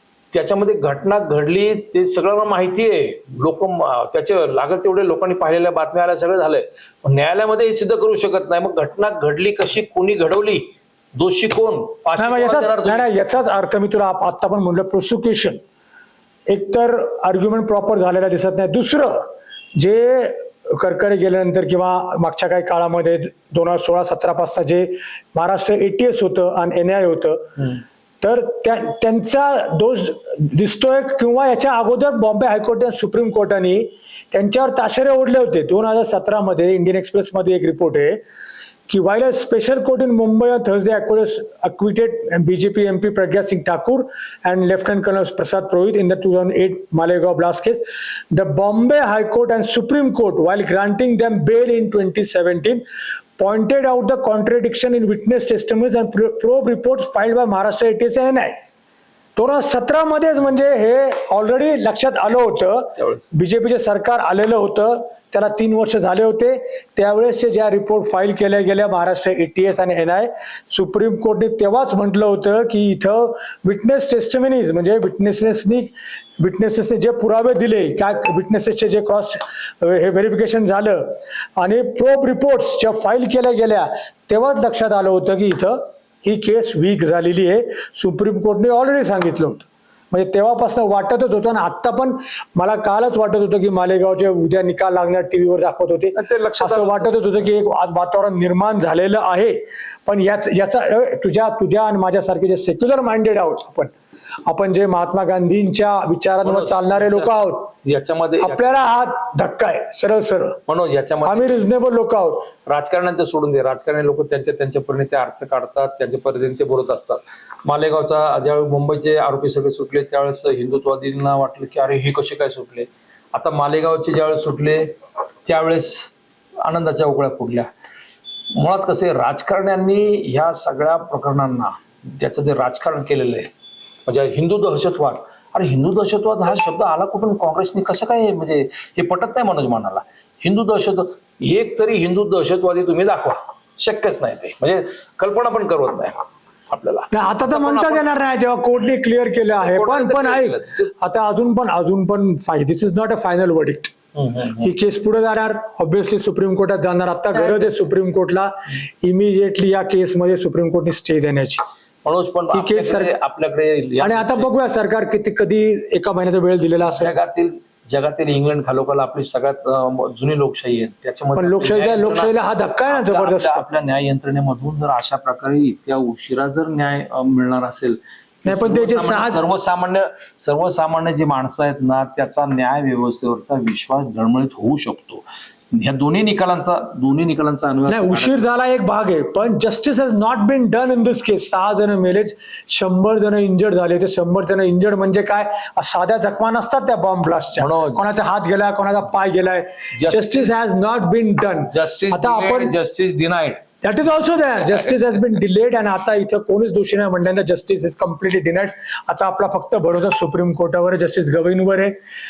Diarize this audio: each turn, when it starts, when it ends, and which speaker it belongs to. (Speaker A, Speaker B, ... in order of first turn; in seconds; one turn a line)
Speaker A: 0.3-13.1
Speaker B: 12.2-15.6
Speaker B: 16.5-27.6
Speaker B: 28.2-38.2
Speaker B: 38.9-47.8
Speaker B: 48.3-52.8
Speaker B: 53.4-58.6
Speaker B: 59.4-103.9
Speaker A: 96.2-97.2
Speaker B: 104.5-107.7
Speaker A: 106.4-107.3
Speaker A: 107.8-108.8
Speaker B: 108.4-110.6
Speaker A: 110.7-111.6
Speaker B: 111.2-112.5
Speaker A: 112.7-124.9
Speaker A: 125.5-126.1
Speaker A: 126.6-127.7
Speaker A: 128.5-133.5
Speaker A: 134.1-146.2
Speaker A: 146.7-148.1
Speaker B: 147.1-153.9
Speaker A: 149.5-150.9
Speaker A: 154.2-154.7
Speaker B: 154.6-161.6
Speaker A: 157.3-157.7
Speaker A: 162.1-164.5
Speaker B: 162.5-163.1
Speaker B: 164.0-167.1
Speaker A: 166.9-172.4
Speaker B: 171.4-173.7
Speaker A: 172.9-188.5
Speaker B: 178.5-179.4
Speaker B: 187.9-202.8
Speaker A: 197.6-198.0
Speaker A: 199.9-200.6
Speaker A: 201.7-203.6
Speaker B: 203.8-211.9